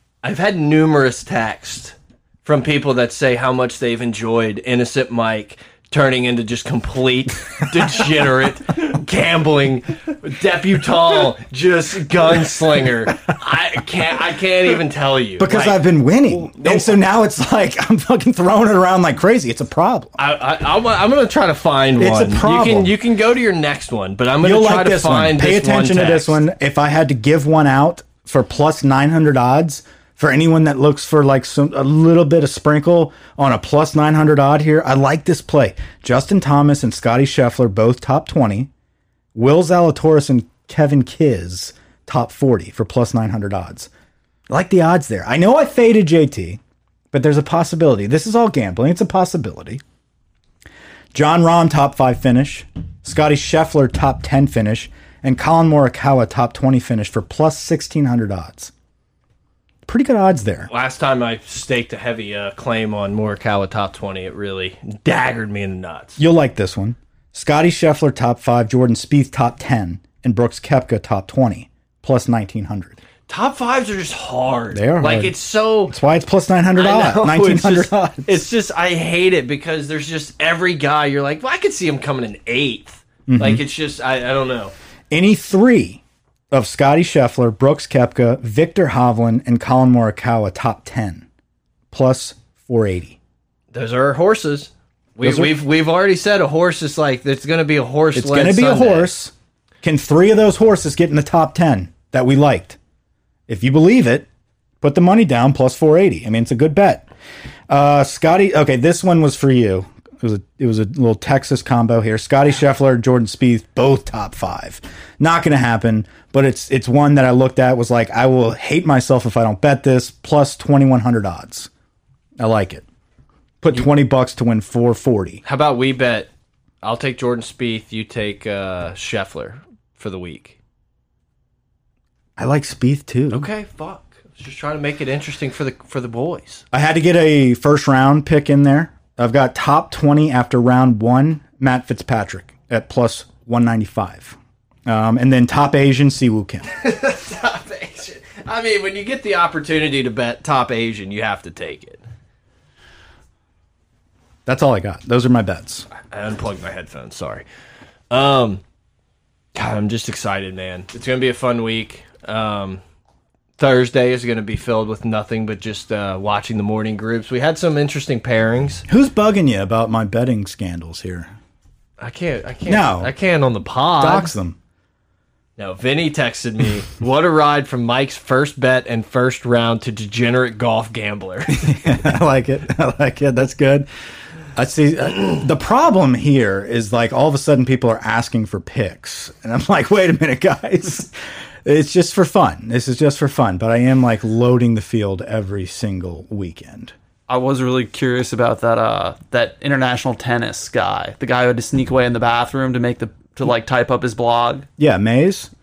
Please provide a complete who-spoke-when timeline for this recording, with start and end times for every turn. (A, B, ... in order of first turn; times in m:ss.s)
0:00.2-0:17.0 A
0:15.4-0:20.2 B
0:20.2-0:26.4 A
0:22.0-0:22.9 B
0:24.4-0:38.7 B
0:39.3-0:43.9 B
0:44.5-0:46.6 B
0:47.1-0:49.8 B
0:51.1-0:58.7 B
0:59.8-1:00.7 B
1:00.7-1:06.2 A
1:06.2-1:13.0 B
1:13.3-1:16.0 A
1:14.7-1:15.3 B
1:15.9-1:18.4 B
1:16.7-1:24.7 A
1:23.3-1:23.6 B
1:25.1-1:31.2 B
1:31.9-1:33.2 B
1:33.7-1:39.1 A
1:35.2-1:35.5 B
1:38.1-1:42.8 B
1:43.5-1:44.3 B
1:44.8-1:47.1 B
1:47.7-2:01.7 B
2:02.4-2:02.8 B
2:03.6-2:05.4 B
2:05.4-2:06.3 A
2:06.8-2:10.6 A
2:12.4-2:13.5 B
2:13.3-2:16.6 A
2:16.7-2:26.6 B
2:26.7-2:32.0 A
2:34.4-2:35.9 B
2:36.0-2:37.4 A
2:38.1-2:38.6 A
2:39.5-2:42.8 A
2:43.6-2:48.8 A
2:48.9-2:51.3 B
2:52.0-2:54.3 A
2:52.7-2:53.1 B
2:54.0-2:54.6 B
2:55.6-3:01.8 A
3:01.5-3:03.9 B
3:04.6-3:16.9 B
3:17.3-3:24.7 C
3:24.8-3:25.5 B